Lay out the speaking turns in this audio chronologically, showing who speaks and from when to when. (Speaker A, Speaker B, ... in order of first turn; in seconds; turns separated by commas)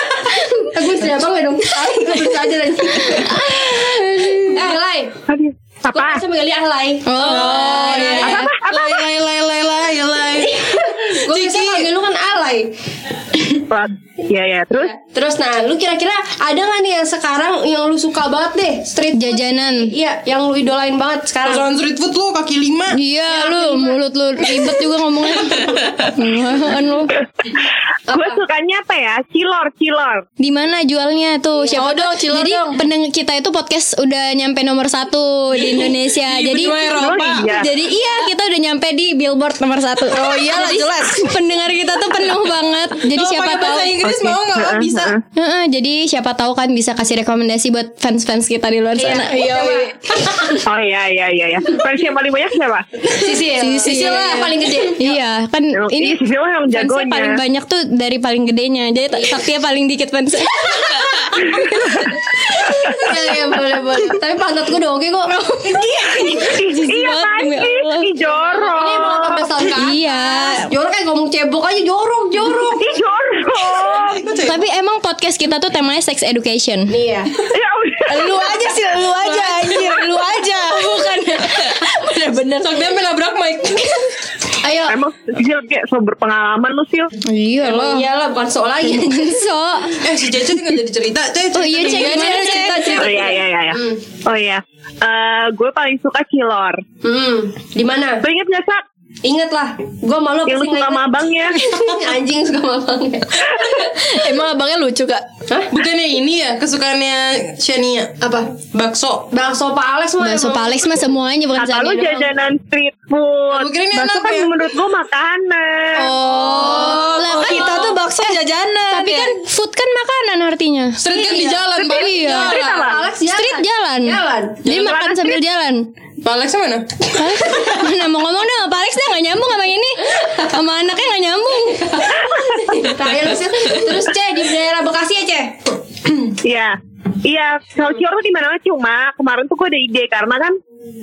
Speaker A: 0.2-3.4, Speaker B: 0.2-0.6, Speaker B: 3.0-4.8, Speaker A: 4.5-5.2, Speaker C: 5.3-6.2, Speaker A: 5.9-8.4, Speaker B: 7.0-8.5, Speaker D: 7.2-11.9, Speaker E: 7.5-8.4, Speaker C: 8.1-9.0, Speaker A: 10.4-12.7, Speaker C: 13.7-14.9, Speaker A: 14.8-21.7, Speaker B: 19.1-19.9, Speaker D: 21.4-23.0, Speaker B: 22.9-27.1, Speaker A: 23.3-24.0, Speaker A: 28.1-28.4, Speaker C: 28.1-30.2, Speaker B: 30.4-44.0, Speaker A: 31.5-31.8, Speaker E: 31.7-32.8, Speaker D: 35.5-37.6, Speaker C: 36.9-37.6, Speaker E: 40.1-41.3, Speaker D: 43.0-45.1, Speaker C: 44.0-45.2, Speaker B: 45.4-49.6, Speaker A: 49.0-49.9, Speaker E: 49.3-50.4, Speaker C: 50.5-52.9, Speaker A: 53.1-55.1, Speaker B: 53.6-62.2, Speaker E: 53.9-54.3, Speaker C: 55.8-57.4, Speaker A: 59.1-59.5, Speaker A: 62.6-65.9, Speaker B: 65.3-68.1, Speaker C: 66.1-69.5, Speaker A: 68.3-72.8, Speaker B: 69.8-70.7, Speaker C: 72.6-74.3, Speaker D: 73.6-74.6, Speaker B: 74.4-76.9, Speaker A: 76.9-77.3, Speaker C: 77.5-78.3, Speaker E: 78.1-82.8, Speaker B: 80.7-81.9, Speaker D: 82.6-84.0, Speaker A: 84.6-84.9, Speaker C: 84.9-87.1, Speaker B: 87.2-88.0, Speaker A: 87.6-89.3, Speaker B: 88.9-90.0, Speaker D: 90.0-92.5, Speaker B: 91.5-93.3, Speaker E: 91.8-93.3, Speaker C: 92.9-96.8, Speaker A: 93.7-94.0, Speaker A: 97.0-98.2, Speaker C: 98.2-98.8, Speaker A: 99.2-103.7, Speaker C: 100.5-101.5, Speaker E: 103.9-105.2, Speaker D: 105.7-108.1, Speaker A: 108.2-108.5, Speaker D: 108.7-109.2, Speaker A: 109.3-110.9, Speaker B: 110.2-112.3, Speaker C: 111.6-116.1, Speaker D: 113.5-114.5, Speaker E: 116.0-119.3, Speaker A: 116.3-117.1, Speaker B: 116.4-118.3, Speaker B: 118.9-122.5, Speaker D: 121.0-122.6, Speaker A: 121.2-121.6, Speaker C: 121.7-123.0, Speaker A: 122.1-124.6, Speaker B: 123.2-125.9, Speaker C: 124.7-125.4, Speaker D: 126.2-127.1, Speaker B: 127.1-131.9, Speaker A: 131.8-135.6, Speaker C: 132.2-132.8, Speaker C: 136.4-140.6